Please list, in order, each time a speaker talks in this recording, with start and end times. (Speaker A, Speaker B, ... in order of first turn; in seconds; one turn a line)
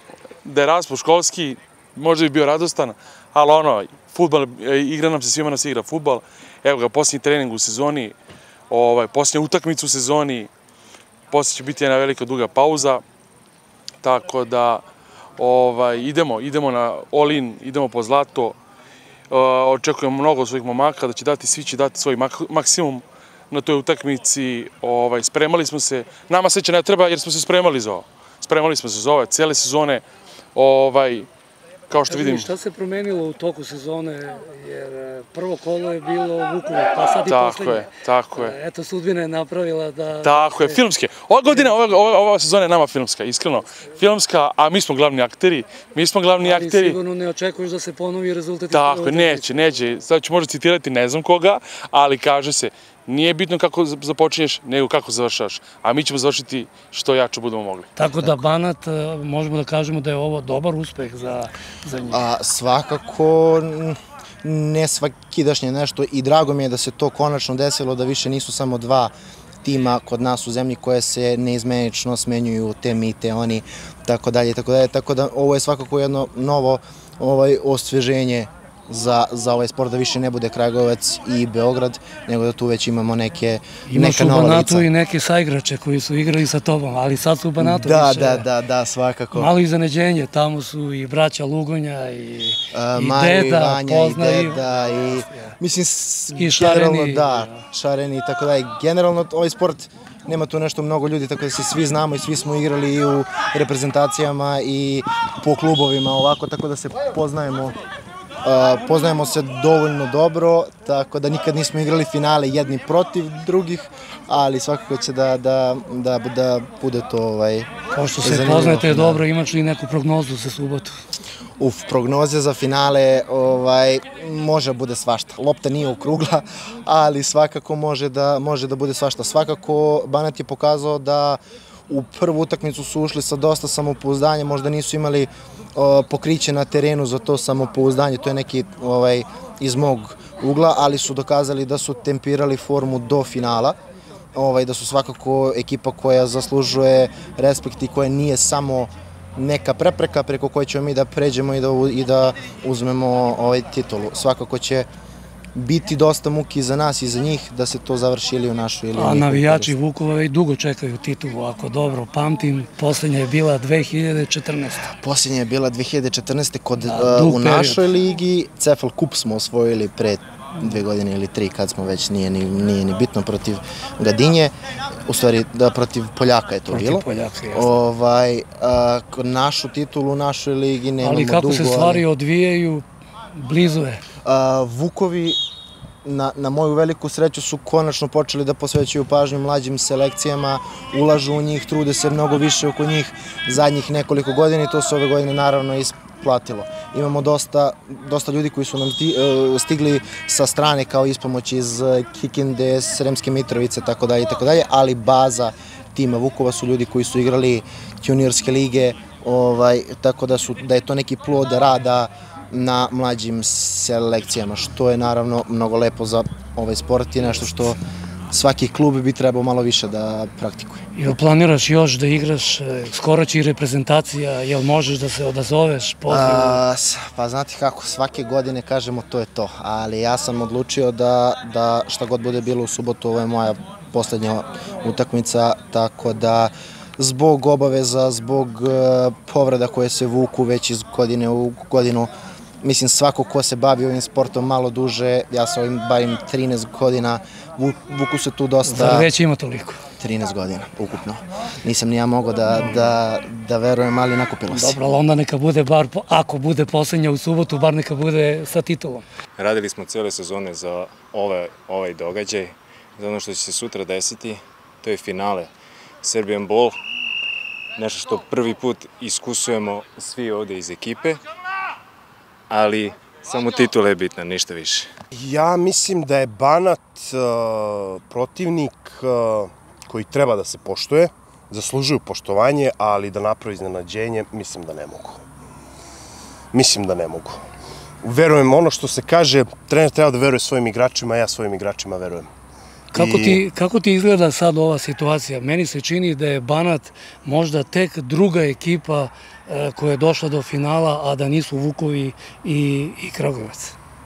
Speaker A: 0.4-8.1
Speaker A: 8.7-10.5
Speaker A: 11.3-13.0
Speaker A: 14.0-14.8
Speaker A: 15.4-18.6
Speaker A: 19.3-30.0
Speaker A: 30.5-31.3
Speaker A: 31.9-32.5
Speaker B: 32.1-40.8
Speaker A: 37.2-38.5
Speaker A: 40.2-47.0
Speaker B: 41.5-41.7
Speaker B: 46.4-49.7
Speaker A: 48.7-57.9
Speaker B: 58.0-62.2
Speaker C: 62.1-69.1
Speaker C: 69.6-84.9
Speaker B: 83.9-88.5
Speaker C: 87.6-89.5
Speaker B: 89.3-94.6
Speaker C: 92.7-107.8
Speaker B: 96.3-97.5
Speaker C: 108.4-119.2
Speaker B: 117.9-120.9
Speaker C: 121.6-143.8
Speaker C: 144.3-154.9
Speaker C: 155.6-159.7
Speaker B: 158.9-164.8
Speaker C: 164.9-174.5
Speaker B: 166.8-167.8
Speaker C: 175.1-182.0
Speaker B: 176.7-177.7
Speaker B: 181.0-184.0
Speaker C: 184.2-185.4
Speaker C: 186.0-217.8
Speaker C: 218.3-220.8
Speaker B: 220.9-226.6
Speaker C: 226.1-242.1
Speaker C: 242.6-249.1
Speaker B: 248.7-249.8
Speaker C: 250.0-254.8
Speaker B: 254.5-259.0
Speaker D: 259.4-265.5
Speaker D: 266.0-266.8
Speaker D: 267.8-271.2
Speaker D: 272.5-274.9
Speaker E: 275.1-285.2
Speaker E: 286.5-287.4
Speaker E: 288.0-292.3
Speaker B: 292.9-303.8
Speaker E: 292.9-293.4